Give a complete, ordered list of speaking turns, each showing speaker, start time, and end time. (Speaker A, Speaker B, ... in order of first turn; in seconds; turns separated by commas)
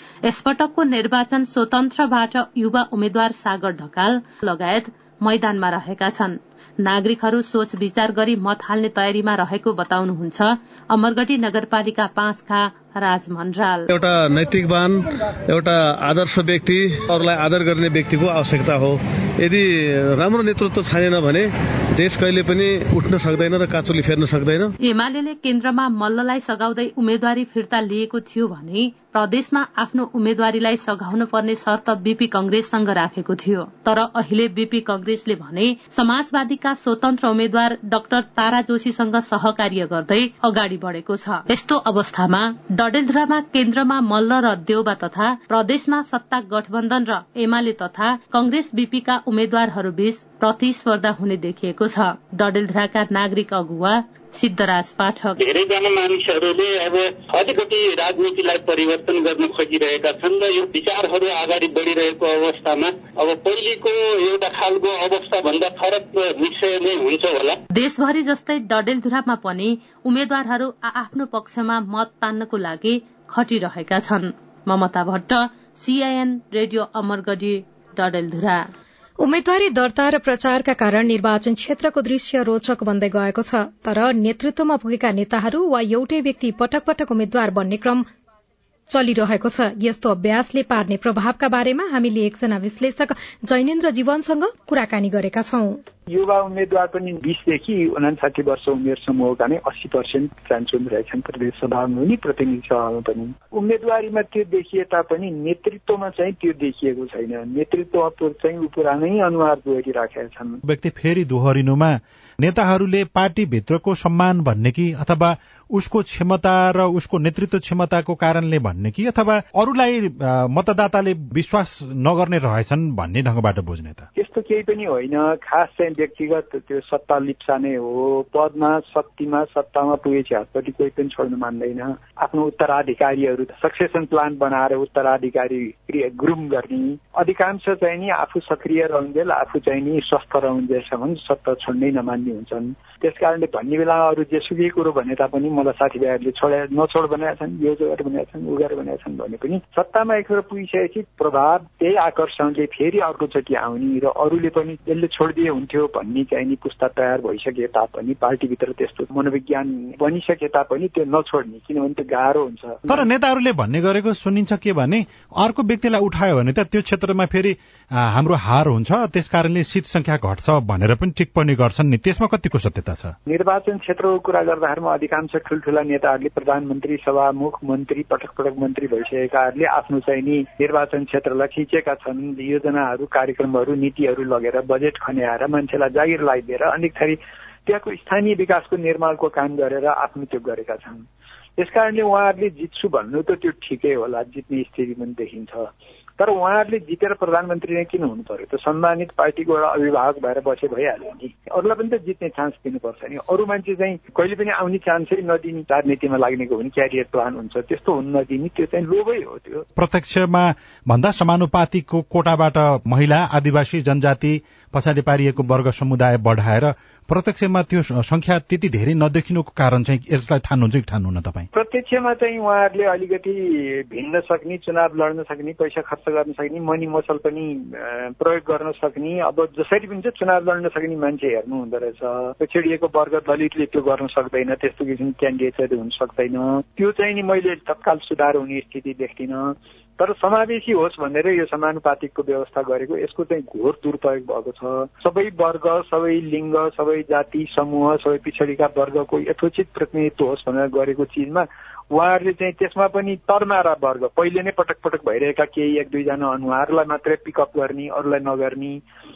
Speaker A: 0.3-13.8, Speaker B: 13.9-24.7, Speaker A: 24.9-55.3, Speaker C: 55.4-67.6, Speaker A: 67.7-78.7, Speaker D: 79.2-88.1, Speaker D: 88.9-95.8, Speaker E: 96.1-110.6, Speaker F: 110.7-124.1, Speaker E: 124.2-163.0, Speaker F: 162.9-173.1, Speaker E: 173.3-191.1, Speaker E: 191.6-209.6, Speaker F: 209.8-221.5, Speaker E: 221.5-258.8